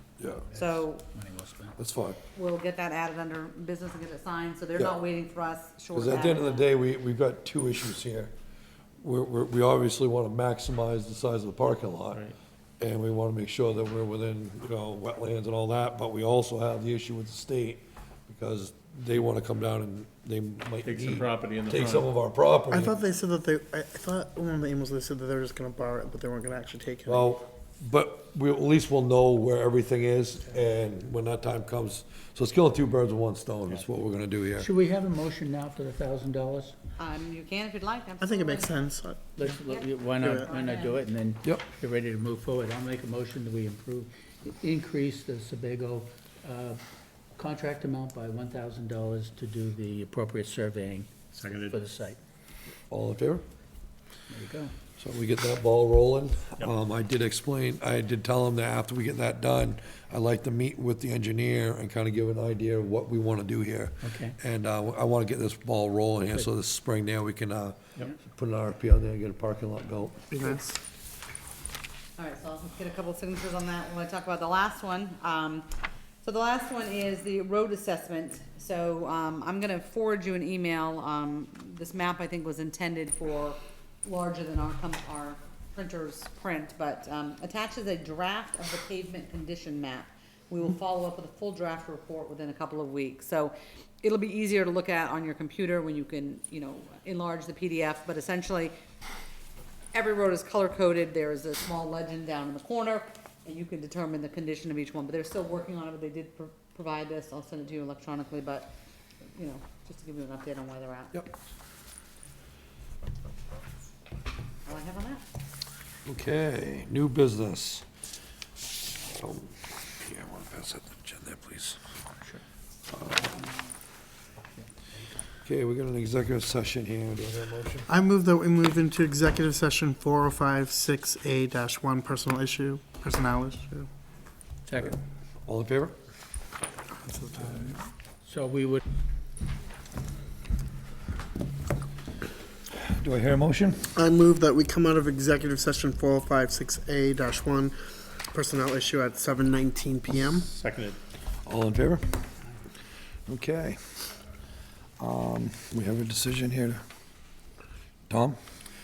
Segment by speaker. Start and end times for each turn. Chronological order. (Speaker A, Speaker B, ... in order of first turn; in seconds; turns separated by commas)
Speaker A: 0.2-0.4, Speaker B: 0.5-1.8, Speaker C: 0.5-1.1, Speaker A: 1.8-2.2, Speaker C: 2.3-6.7, Speaker A: 5.9-8.3, Speaker A: 9.0-12.3, Speaker A: 12.8-22.9, Speaker D: 20.8-22.1, Speaker E: 22.7-27.3, Speaker A: 27.1-34.7, Speaker B: 34.6-36.8, Speaker C: 37.0-38.8, Speaker E: 38.2-39.6, Speaker B: 39.4-46.8, Speaker C: 39.6-41.0, Speaker E: 40.1-40.5, Speaker B: 47.4-52.2, Speaker D: 51.3-51.8, Speaker A: 52.9-53.4, Speaker B: 54.3-54.7, Speaker A: 55.0-70.3, Speaker B: 64.0-64.4, Speaker E: 70.3-70.8, Speaker C: 72.2-75.7, Speaker C: 76.2-98.7, Speaker C: 99.9-108.7, Speaker C: 109.3-111.2, Speaker C: 114.7-115.2, Speaker A: 116.0-117.8, Speaker A: 119.1-121.8, Speaker A: 122.9-123.4, Speaker A: 125.5-127.9, Speaker E: 127.9-133.9, Speaker B: 134.7-135.0, Speaker A: 135.4-135.9, Speaker E: 137.0-137.7, Speaker B: 137.3-138.8, Speaker A: 142.7-143.9, Speaker E: 143.9-150.5, Speaker D: 150.5-151.0, Speaker A: 151.4-152.3, Speaker A: 153.3-154.1, Speaker A: 155.0-156.8, Speaker A: 158.1-158.4